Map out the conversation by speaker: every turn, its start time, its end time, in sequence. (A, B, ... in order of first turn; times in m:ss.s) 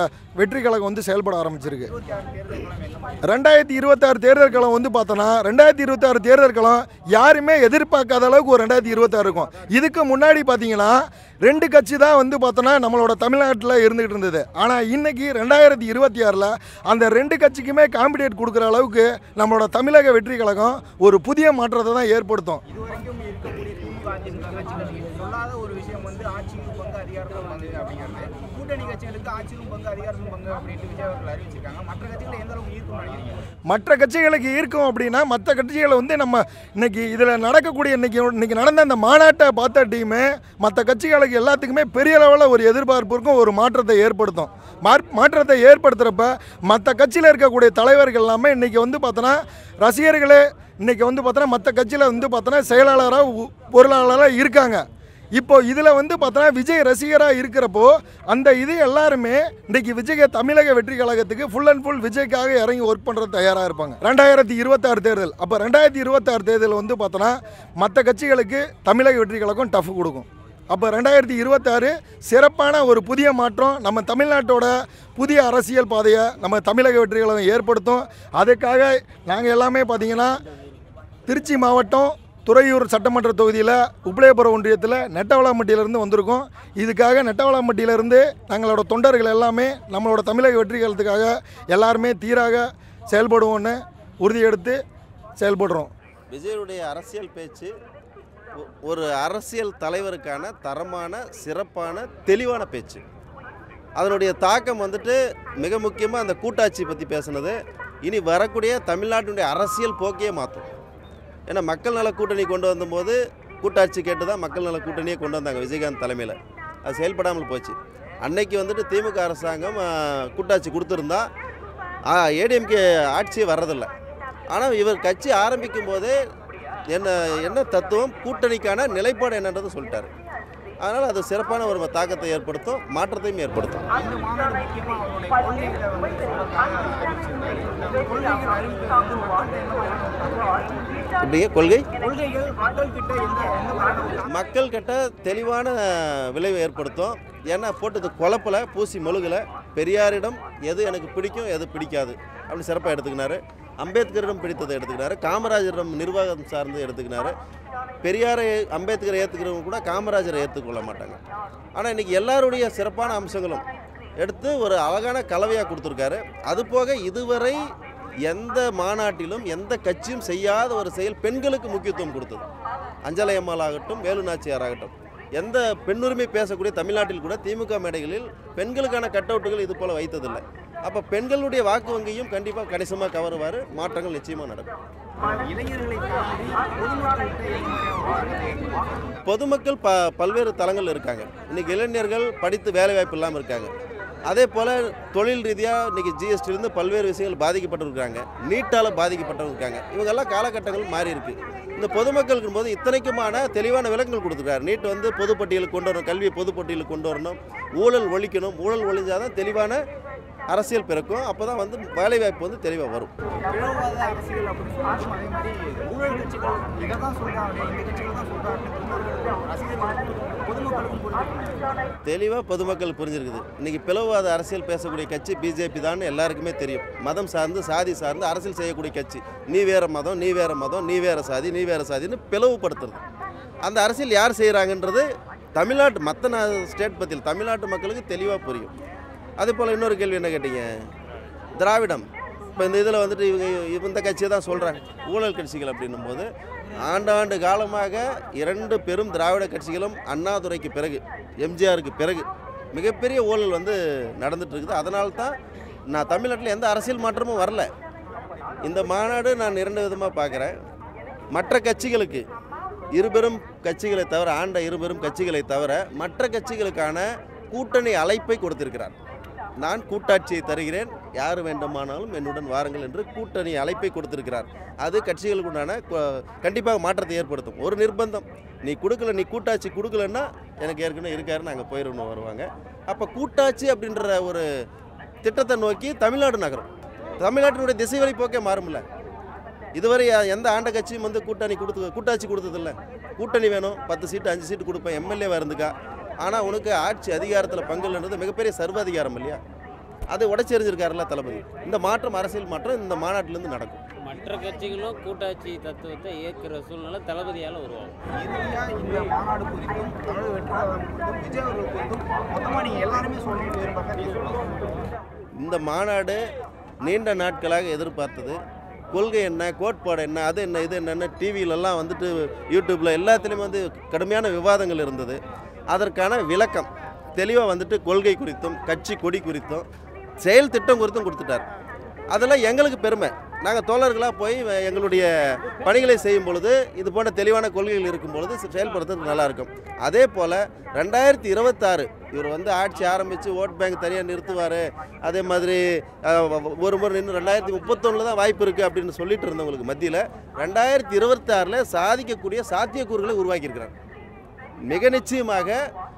0:00.4-0:01.9 A
0:01.8-0:03.3 B
0:03.2-0:22.6 A
0:22.7-0:33.5 B
0:33.7-0:54.8 A
0:55.4-1:20.4 A
1:21.3-1:34.8 A
1:35.4-1:35.9 A
1:36.3-1:37.7 C
1:38.8-1:43.0 C
1:44.0-1:47.5 C
1:48.0-1:50.6 C
1:51.5-2:01.2 C
2:02.1-2:03.9 C
2:04.5-2:06.2 C
2:06.9-2:10.1 C
2:10.8-2:13.9 C
2:13.9-2:21.1 B
2:21.2-2:21.9 C
2:22.0-2:24.3 B
2:24.3-2:25.8 C
2:26.3-2:37.3 C
2:38.0-2:41.2 C
2:41.8-2:43.6 C
2:44.2-2:47.6 C
2:48.3-2:52.4 C
2:53.0-3:04.7 C
3:05.2-3:09.2 B
3:09.2-3:13.7 C
3:14.3-3:29.8 C
3:30.5-3:33.1 C
3:33.5-3:41.8 B
3:42.1-3:53.0 C
3:53.6-3:55.0 C
3:55.6-3:58.7 C
3:59.4-4:00.6 C
4:01.6-4:02.0 C
4:02.6-4:06.3 C
4:06.8-4:15.3 C
4:15.9-4:17.7 C
4:18.6-4:20.5 C
4:21.3-4:22.2 C
4:22.9-4:28.9 C
4:29.6-4:44.4 C
4:45.2-4:46.7 C
4:47.2-4:48.8 C
4:49.8-4:59.4 C
5:00.1-5:03.8 C
5:04.0-5:07.9 D
5:08.1-5:14.7 B
5:15.4-5:16.2 C
5:16.8-5:18.4 C
5:18.9-5:25.2 C
5:25.7-5:29.6 C
5:30.2-5:31.4 C
5:32.1-5:35.0 C
5:35.6-5:53.7 C
5:54.7-5:55.6 C